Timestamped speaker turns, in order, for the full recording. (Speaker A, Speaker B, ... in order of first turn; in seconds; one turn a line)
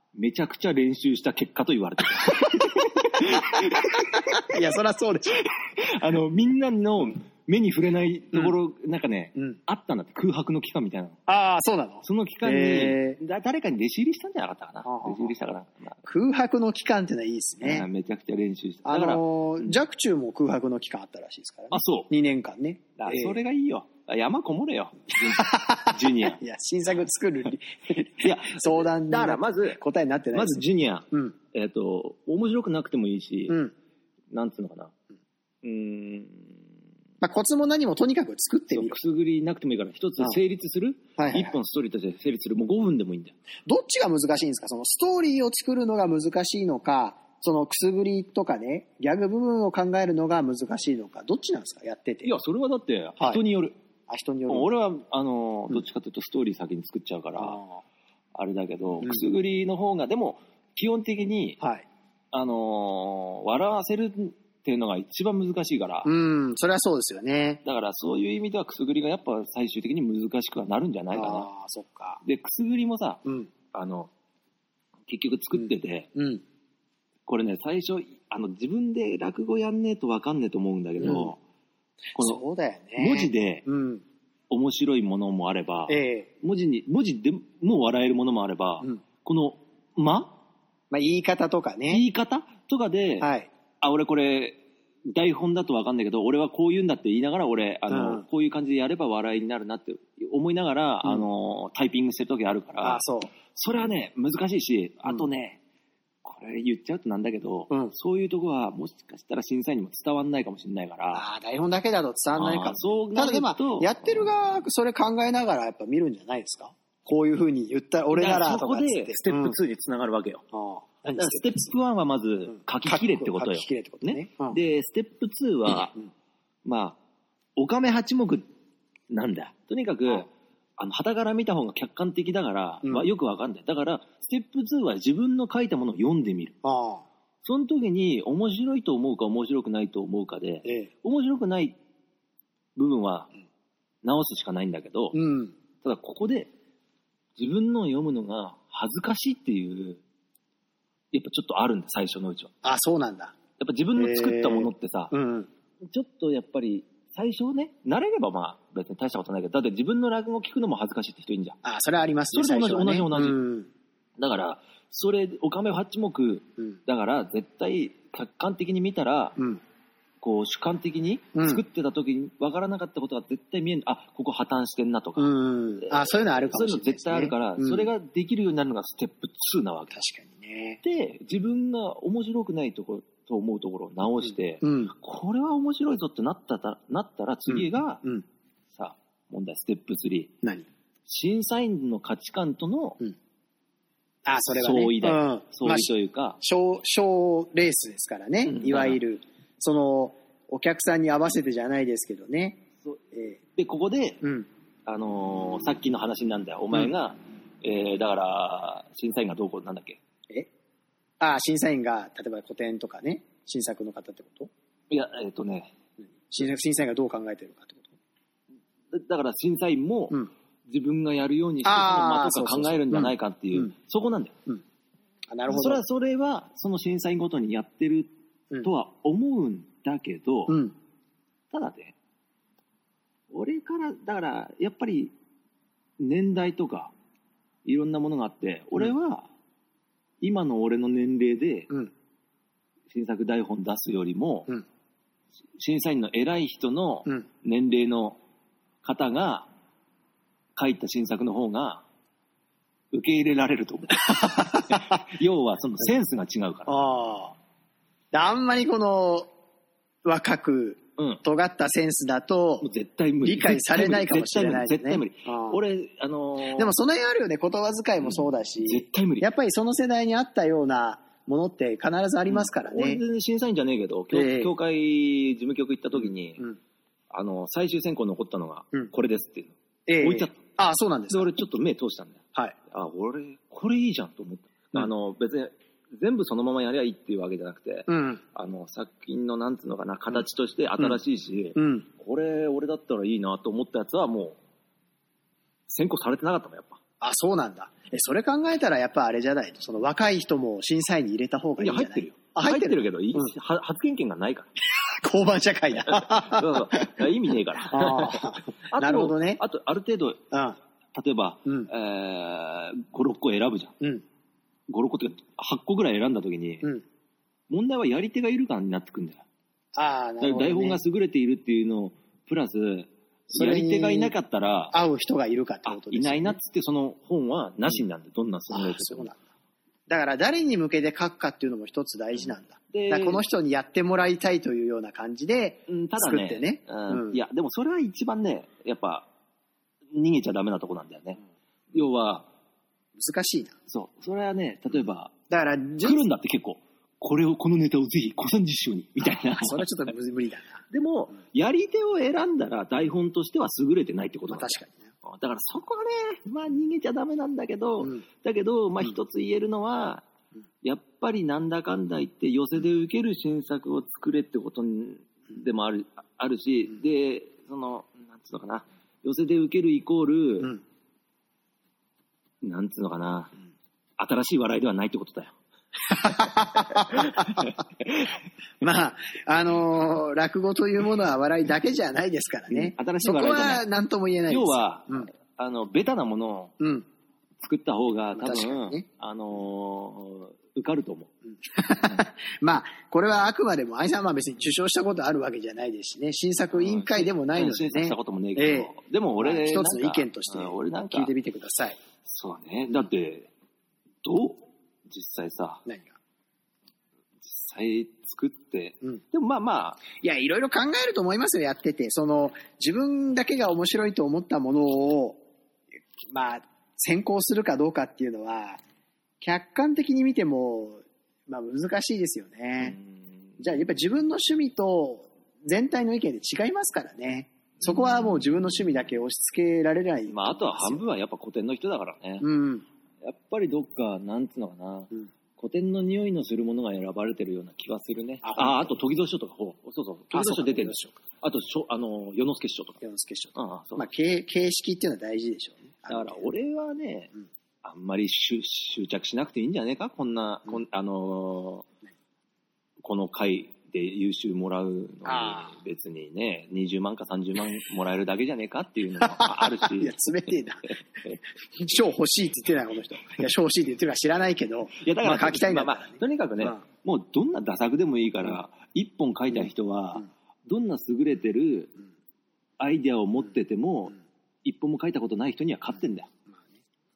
Speaker A: 0.1-4.4
Speaker B: 2.3-5.4
Speaker A: 5.4-11.2
Speaker B: 11.3-13.2
Speaker A: 12.0-16.0
Speaker B: 14.8-15.3
Speaker B: 16.1-17.9
Speaker A: 17.6-19.8
Speaker B: 18.9-23.4
Speaker A: 21.7-22.1
Speaker A: 23.0-26.4
Speaker B: 25.2-30.6
Speaker A: 28.2-29.8
Speaker A: 30.3-33.6
Speaker A: 34.3-34.9
Speaker A: 35.6-36.6
Speaker B: 37.2-39.0
Speaker A: 38.7-43.3
Speaker B: 41.2-41.6
Speaker B: 43.6-52.3
Speaker A: 52.2-53.8
Speaker B: 54.1-54.7
Speaker A: 54.5-57.6
Speaker B: 57.4-57.8
Speaker A: 58.3-61.6
Speaker A: 62.3-66.1
Speaker B: 66.0-67.6
Speaker A: 67.6-71.5
Speaker B: 71.1-72.2
Speaker A: 72.2-74.1
Speaker A: 75.1-76.1
Speaker B: 75.5-76.4
Speaker A: 77.3-81.4
Speaker B: 81.0-81.3
Speaker B: 82.1-84.0
Speaker A: 82.1-82.4
Speaker A: 83.0-83.7
Speaker A: 84.5-90.4
Speaker B: 85.9-86.3
Speaker B: 90.9-92.0
Speaker A: 91.9-93.3
Speaker B: 93.2-93.5
Speaker A: 93.8-105.6
Speaker B: 97.9-98.2
Speaker B: 102.8-103.3
Speaker A: 106.2-111.2
Speaker B: 111.1-119.6
Speaker A: 112.3-114.2
Speaker A: 118.1-120.4
Speaker B: 120.5-121.6
Speaker A: 121.2-126.0
Speaker B: 122.5-124.6
Speaker A: 126.6-127.0
Speaker A: 127.6-128.5
Speaker A: 129.1-136.6
Speaker B: 136.6-137.0
Speaker A: 137.4-141.8
Speaker B: 140.6-140.9
Speaker A: 142.8-143.3
Speaker A: 144.0-145.2
Speaker B: 145.1-145.5
Speaker A: 145.8-146.5
Speaker A: 147.3-150.0
Speaker A: 151.1-152.5
Speaker B: 152.6-153.3
Speaker A: 153.6-155.1
Speaker B: 153.9-155.5
Speaker A: 155.8-161.6
Speaker B: 161.6-163.7
Speaker A: 162.3-163.4
Speaker A: 164.2-169.4
Speaker A: 170.2-180.0
Speaker B: 171.3-171.6
Speaker B: 175.2-177.9
Speaker B: 179.9-180.8
Speaker A: 180.8-188.0
Speaker B: 184.6-184.9
Speaker B: 187.5-188.2
Speaker A: 188.7-190.3
Speaker A: 191.1-193.0
Speaker B: 194.2-203.4
Speaker A: 194.5-196.4
Speaker A: 198.4-199.0
Speaker A: 203.6-204.2
Speaker B: 204.2-204.5
Speaker A: 204.8-210.0
Speaker B: 211.2-214.5
Speaker A: 214.9-215.7
Speaker B: 216.0-217.9
Speaker A: 218.9-224.3
Speaker B: 221.6-223.7
Speaker B: 225.3-225.8
Speaker A: 225.5-228.1
Speaker A: 228.6-230.6
Speaker B: 230.5-230.7
Speaker A: 231.5-231.9
Speaker A: 233.3-235.1
Speaker A: 236.0-236.9
Speaker A: 237.6-239.3
Speaker A: 240.2-241.7
Speaker A: 242.9-244.5
Speaker A: 245.6-248.2
Speaker A: 248.8-249.5
Speaker A: 250.6-251.8
Speaker A: 252.9-256.9
Speaker B: 254.1-254.8
Speaker B: 256.7-257.3
Speaker B: 258.1-259.3
Speaker B: 260.0-262.7
Speaker A: 261.0-261.2
Speaker A: 262.6-266.7
Speaker B: 263.2-265.6
Speaker B: 266.5-273.0
Speaker A: 268.0-269.3
Speaker A: 272.3-276.4
Speaker B: 274.1-274.5
Speaker B: 275.9-276.6
Speaker A: 277.1-280.4
Speaker B: 279.9-281.3
Speaker A: 281.1-294.4
Speaker B: 287.9-288.2
Speaker B: 291.6-291.9
Speaker A: 295.7-296.8
Speaker B: 297.0-303.3
Speaker A: 301.6-304.5
Speaker B: 304.7-307.1
Speaker A: 305.8-310.2
Speaker B: 307.7-309.4
Speaker B: 310.3-310.6
Speaker A: 310.9-313.7
Speaker A: 314.7-316.7
Speaker A: 317.5-319.2
Speaker B: 319.7-320.8
Speaker A: 320.2-324.7
Speaker B: 323.3-324.1
Speaker B: 324.7-326.4
Speaker A: 325.6-329.1
Speaker B: 328.5-329.2
Speaker B: 329.9-337.2
Speaker A: 332.7-333.2
Speaker A: 335.7-339.1
Speaker A: 339.9-341.2
Speaker A: 341.7-342.3
Speaker B: 342.9-343.5
Speaker A: 343.7-345.1
Speaker B: 345.3-346.0
Speaker A: 345.8-349.6
Speaker B: 349.0-350.6
Speaker A: 350.7-360.0
Speaker B: 354.3-354.9
Speaker A: 360.6-370.6
Speaker A: 372.4-373.3
Speaker A: 374.0-375.4
Speaker B: 375.8-377.5
Speaker A: 376.3-378.1
Speaker B: 378.6-385.1
Speaker A: 382.5-383.6
Speaker A: 384.3-386.5
Speaker B: 386.6-386.8
Speaker A: 387.4-391.1
Speaker B: 388.1-388.8
Speaker B: 391.4-401.8
Speaker A: 396.5-401.1
Speaker A: 402.0-403.3
Speaker A: 404.0-405.6
Speaker B: 405.6-405.9
Speaker A: 407.2-409.8
Speaker B: 409.9-415.2
Speaker B: 416.0-418.6
Speaker B: 419.2-422.8
Speaker A: 422.6-423.4
Speaker B: 423.4-430.8
Speaker A: 427.6-428.1
Speaker A: 430.1-432.3
Speaker B: 432.2-432.6
Speaker A: 433.0-442.8
Speaker B: 438.2-438.8
Speaker B: 440.1-441.0
Speaker B: 442.8-446.3
Speaker A: 443.3-443.9
Speaker A: 445.9-447.1
Speaker A: 447.6-451.7
Speaker A: 452.8-460.0
Speaker B: 455.0-455.5
Speaker B: 459.0-460.7
Speaker B: 461.6-466.6
Speaker A: 464.8-471.7
Speaker A: 472.6-476.1